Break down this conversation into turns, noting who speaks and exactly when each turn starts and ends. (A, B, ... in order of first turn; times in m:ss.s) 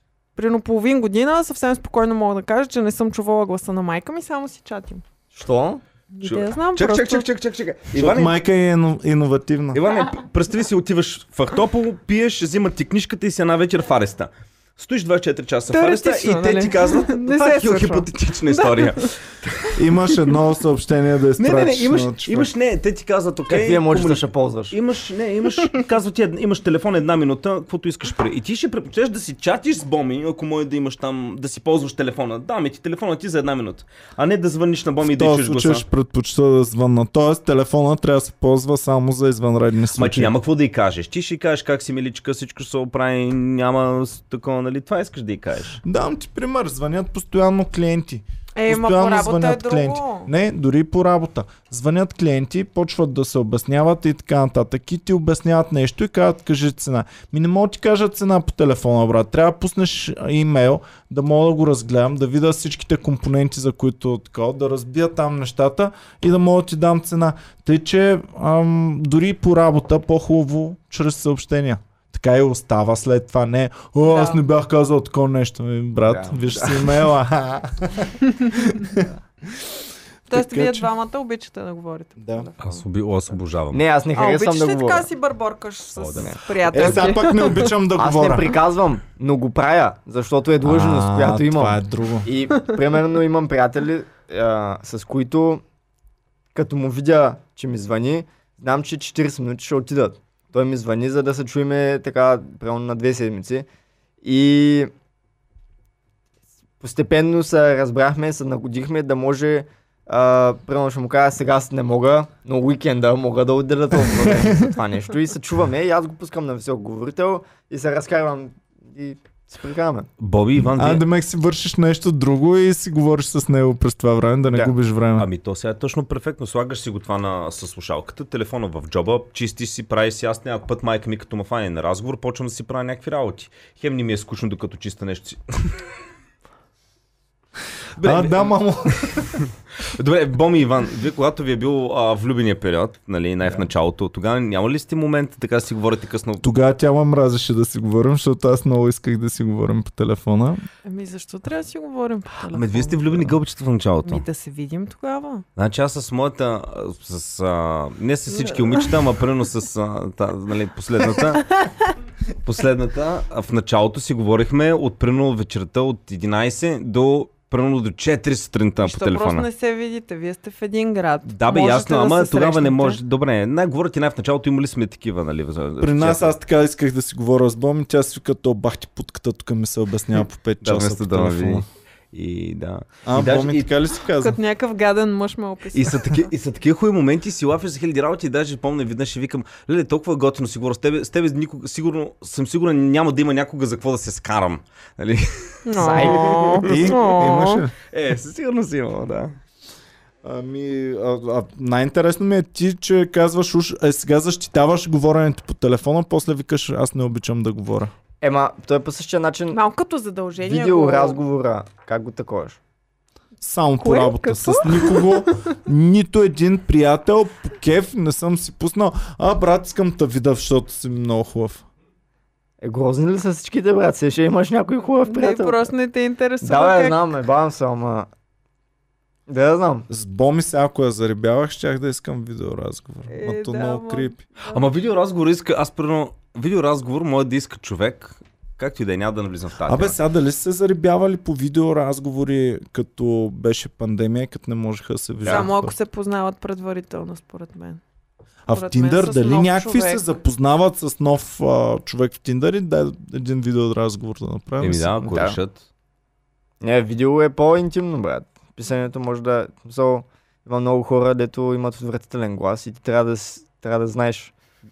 0:00.4-0:05.0 A
0:05.3-0:05.8 B
0:06.1-0:07.3 A
0:06.2-0:08.4 C
0:07.9-0:09.8 D
0:09.7-0:20.2 C
0:15.7-0:19.1 A
0:19.8-0:22.5 D
0:21.4-0:35.8 C
0:23.5-0:24.8 B
0:35.0-0:40.3 D
0:40.0-0:45.8 C
0:45.8-1:19.7 D
0:48.6-0:50.3 A
1:14.0-1:14.4 A
1:16.0-1:16.9 B
1:20.3-1:20.9 D
1:20.3-1:22.8 A
1:22.2-1:22.5 D
1:22.6-1:23.8 C
1:23.7-1:25.1 B
1:24.2-1:27.7 A
1:26.0-1:26.3 C
1:26.7-1:28.6 D
1:28.0-1:35.6 B
1:30.6-1:32.3 D
1:36.6-1:43.7 B
1:44.2-1:44.9 B
1:46.8-2:00.1 B
1:54.1-1:54.7 D
2:00.2-2:01.0 C
2:00.6-2:05.3 D
2:05.2-2:15.8 C
2:18.0-2:26.5 C
2:18.0-2:19.4 D
2:26.4-2:30.6 D
2:30.8-2:33.3 A
2:32.5-2:34.2 C
2:34.0-2:35.4 A
2:35.6-2:41.6 C
2:38.4-2:38.8 A
2:42.4-2:49.5 C
2:48.8-2:53.0 A
2:51.3-2:56.3 C
2:55.8-3:01.7 D
3:00.6-3:03.7 C
3:03.0-3:04.4 D
3:04.1-3:06.2 A
3:05.7-3:17.2 C
3:15.7-3:17.6 A
3:15.8-3:16.6 B
3:16.7-3:17.7 D
3:17.9-3:19.3 C
3:20.2-3:27.9 D
3:28.2-3:29.6 B
3:29.5-3:31.2 A
3:30.4-3:32.6 B
3:33.4-3:41.6 D
3:33.8-3:35.3 A
3:42.6-3:45.7 B
3:45.0-3:47.0 A
3:46.4-3:48.1 B
3:49.3-3:49.9 B
3:49.9-3:54.2 D
3:53.1-3:54.7 A
3:54.5-4:00.0 C
3:59.7-4:05.8 D
4:05.3-4:07.8 A
4:08.5-4:15.0 D
4:08.5-4:10.1 A
4:14.6-4:15.6 C
4:15.0-4:15.4 B
4:16.6-4:24.3 B